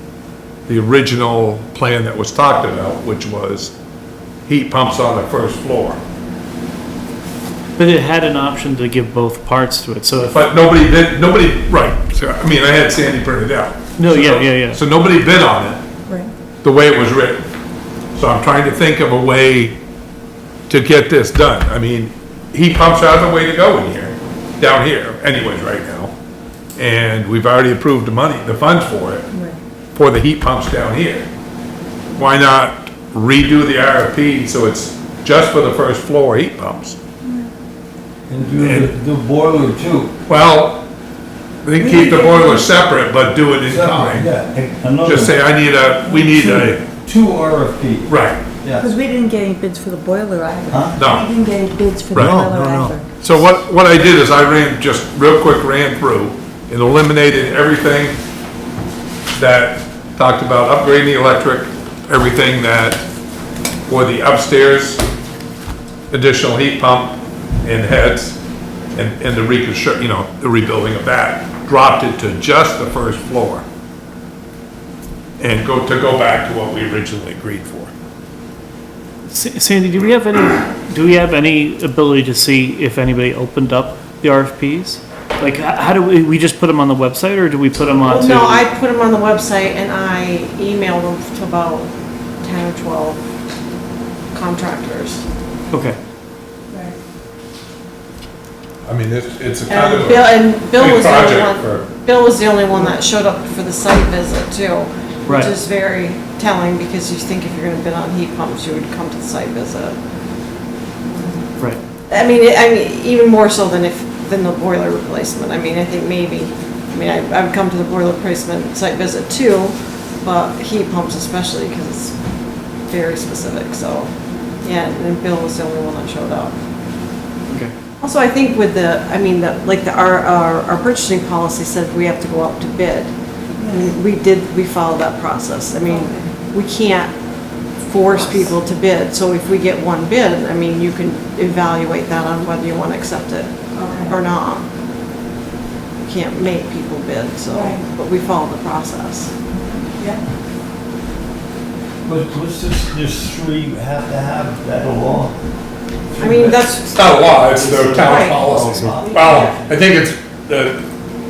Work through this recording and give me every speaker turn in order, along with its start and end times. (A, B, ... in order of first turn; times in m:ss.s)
0:00.7-0:03.7 A
0:04.5-0:06.0 A
0:07.8-0:10.4 B
0:10.3-0:15.8 A
0:14.0-0:14.8 B
0:16.6-0:17.4 A
0:18.2-0:19.8 A
0:20.7-0:26.1 A
0:26.8-0:29.3 A
0:29.3-0:29.6 C
0:29.9-0:31.3 A
0:32.2-0:37.0 A
0:37.2-0:37.5 C
0:38.3-0:40.1 D
0:38.6-0:38.9 A
0:40.3-0:40.9 A
0:41.6-0:44.3 A
0:41.8-0:42.7 C
0:43.7-0:45.4 D
0:45.0-0:46.8 A
0:46.1-0:46.6 C
0:46.3-0:48.1 D
0:48.1-0:48.4 A
0:48.6-0:48.9 D
0:48.8-0:53.1 C
0:50.7-0:51.0 D
0:51.0-0:51.3 A
0:52.1-0:52.5 A
0:52.2-0:53.0 D
0:53.2-0:58.2 A
0:59.4-1:03.0 A
1:03.9-1:05.0 A
1:06.1-1:08.4 A
1:08.9-1:13.6 A
1:15.4-1:17.9 A
1:19.3-1:28.6 B
1:28.0-1:33.2 E
1:34.3-1:35.2 E
1:35.7-1:36.0 B
1:36.7-1:37.0 C
1:38.8-1:41.9 A
1:39.7-1:50.0 E
1:52.1-2:02.2 E
2:02.9-2:04.1 E
2:04.6-2:06.6 E
2:08.0-2:17.2 E
2:13.6-2:13.9 C
2:15.9-2:16.3 C
2:17.8-2:24.6 E
2:18.1-2:18.5 C
2:23.7-2:24.2 C
2:26.1-2:29.3 E
2:27.5-2:27.9 C
2:29.6-2:30.2 C
2:32.0-2:35.4 D
2:36.1-2:36.7 D
2:36.2-2:39.5 E
2:36.8-2:40.8 A
2:37.7-2:39.6 D